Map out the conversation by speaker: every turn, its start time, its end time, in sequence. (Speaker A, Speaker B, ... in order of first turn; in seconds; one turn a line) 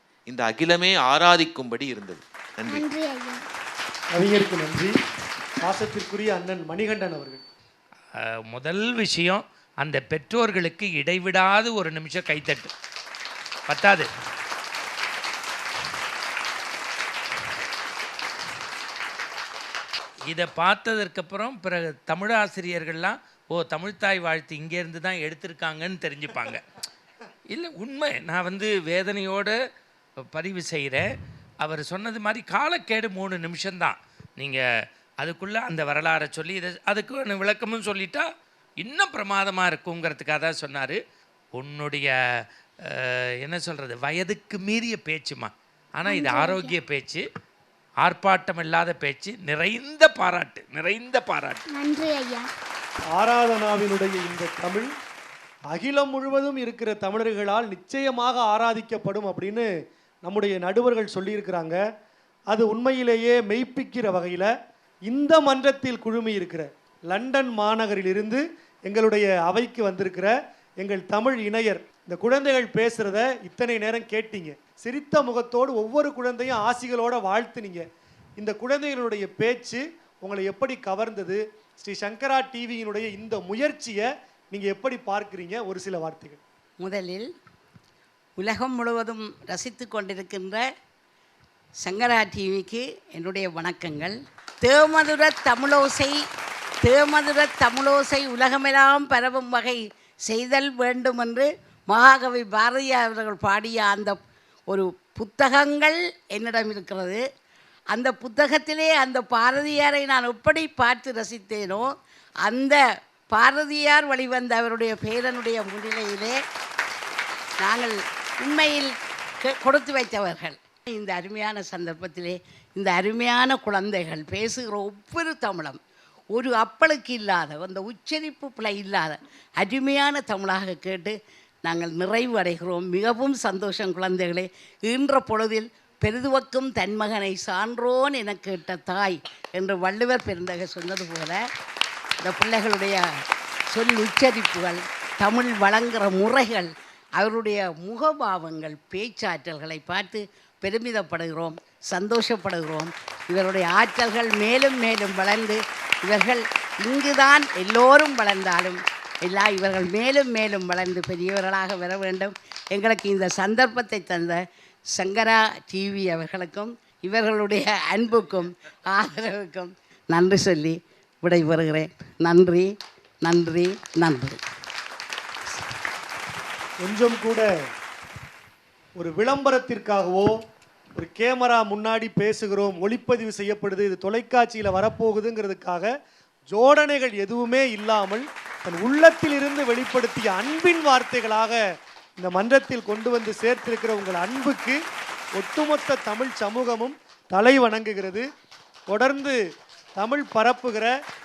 Speaker A: 0.3-2.8
Speaker B: 2.7-3.4
Speaker C: 4.1-4.9
Speaker C: 5.6-7.4
Speaker D: 8.5-12.7
Speaker D: 13.7-14.1
Speaker D: 20.3-26.6
Speaker D: 27.5-29.5
Speaker D: 30.3-31.1
Speaker D: 31.6-34.6
Speaker D: 35.2-38.3
Speaker D: 38.8-41.0
Speaker D: 41.5-42.1
Speaker D: 42.9-47.2
Speaker B: 46.0-46.7
Speaker D: 48.0-51.6
Speaker B: 51.7-52.5
Speaker C: 53.1-54.9
Speaker C: 55.7-59.6
Speaker C: 60.2-61.8
Speaker C: 62.5-64.5
Speaker C: 65.1-77.8
Speaker C: 78.4-86.4
Speaker E: 86.8-87.3
Speaker E: 88.4-90.6
Speaker E: 91.8-96.2
Speaker E: 96.8-104.2
Speaker E: 104.7-107.2
Speaker E: 107.9-111.9
Speaker E: 112.4-112.8
Speaker E: 113.3-116.3
Speaker E: 117.6-118.9
Speaker E: 119.4-125.8
Speaker E: 126.3-141.4
Speaker E: 142.2-143.0
Speaker E: 143.7-164.4
Speaker E: 164.9-172.7
Speaker E: 173.2-174.4
Speaker C: 176.8-177.5
Speaker C: 178.9-180.3
Speaker C: 181.0-185.9
Speaker C: 186.5-191.6
Speaker C: 192.2-194.8
Speaker C: 195.4-198.2
Speaker C: 198.9-199.4
Speaker C: 200.0-200.9